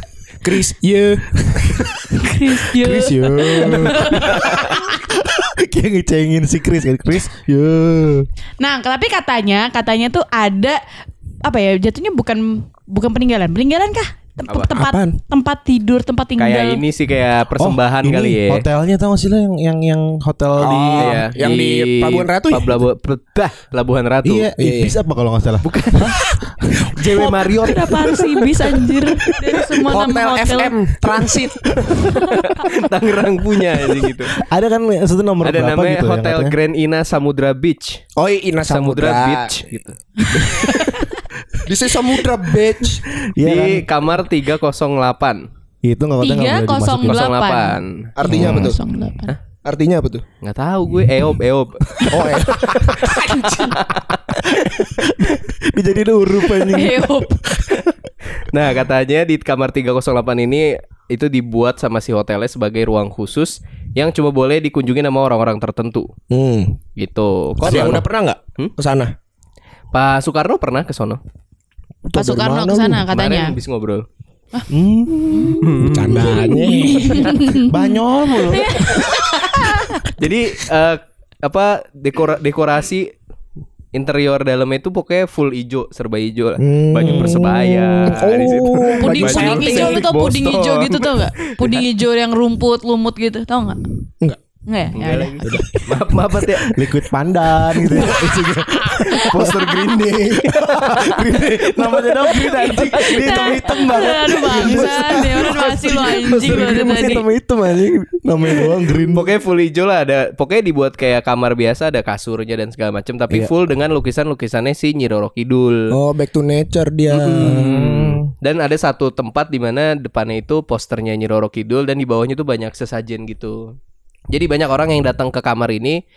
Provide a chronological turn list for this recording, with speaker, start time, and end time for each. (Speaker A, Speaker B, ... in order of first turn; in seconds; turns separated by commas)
Speaker A: 0.4-1.9, Speaker B: 2.1-4.8, Speaker C: 2.7-8.3, Speaker B: 8.6-10.8, Speaker B: 11.4-16.8, Speaker A: 14.7-15.2, Speaker D: 16.4-18.7, Speaker C: 17.6-21.2, Speaker A: 20.6-22.8, Speaker D: 20.6-24.5, Speaker C: 24.2-26.3, Speaker A: 24.6-24.9, Speaker D: 25.6-26.2, Speaker D: 26.9-28.1, Speaker C: 27.1-27.8, Speaker B: 27.6-30.8, Speaker A: 29.9-31.7, Speaker D: 31.9-34.4, Speaker B: 32.1-32.6, Speaker C: 34.4-36.6, Speaker D: 35.4-38.0, Speaker A: 38.2-39.5, Speaker D: 38.7-40.0, Speaker B: 40.2-41.2, Speaker A: 41.7-43.0, Speaker C: 43.1-43.9, Speaker D: 43.4-45.5, Speaker C: 45.8-47.3, Speaker B: 46.2-49.4, Speaker D: 47.0-48.5, Speaker A: 48.2-48.8, Speaker C: 48.2-48.7, Speaker A: 49.6-50.2, Speaker D: 50.4-53.0, Speaker A: 52.1-53.8, Speaker D: 53.7-54.4, Speaker C: 54.5-57.2, Speaker B: 56.7-57.5, Speaker D: 58.3-66.1, Speaker A: 66.3-66.8, Speaker D: 67.0-68.1, Speaker A: 67.6-69.1, Speaker C: 67.7-68.0, Speaker D: 69.9-71.2, Speaker A: 72.1-73.0, Speaker B: 72.2-73.5, Speaker D: 73.1-74.1, Speaker C: 74.7-76.4, Speaker B: 75.3-75.7, Speaker D: 75.6-76.4, Speaker A: 75.8-77.4, Speaker B: 76.3-80.1, Speaker C: 77.6-79.1, Speaker D: 80.1-83.1, Speaker D: 83.9-91.9, Speaker A: 86.6-90.1, Speaker C: 87.0-87.6, Speaker B: 89.0-93.8, Speaker B: 94.7-95.5, Speaker D: 95.0-96.8, Speaker A: 95.4-96.0, Speaker C: 96.7-109.3, Speaker B: 97.9-99.7, Speaker D: 99.1-102.2, Speaker B: 102.3-107.2, Speaker D: 104.4-107.0, Speaker D: 108.9-115.9, Speaker A: 115.9-117.8, Speaker D: 117.1-123.8, Speaker C: 117.4-118.2, Speaker D: 124.3-126.0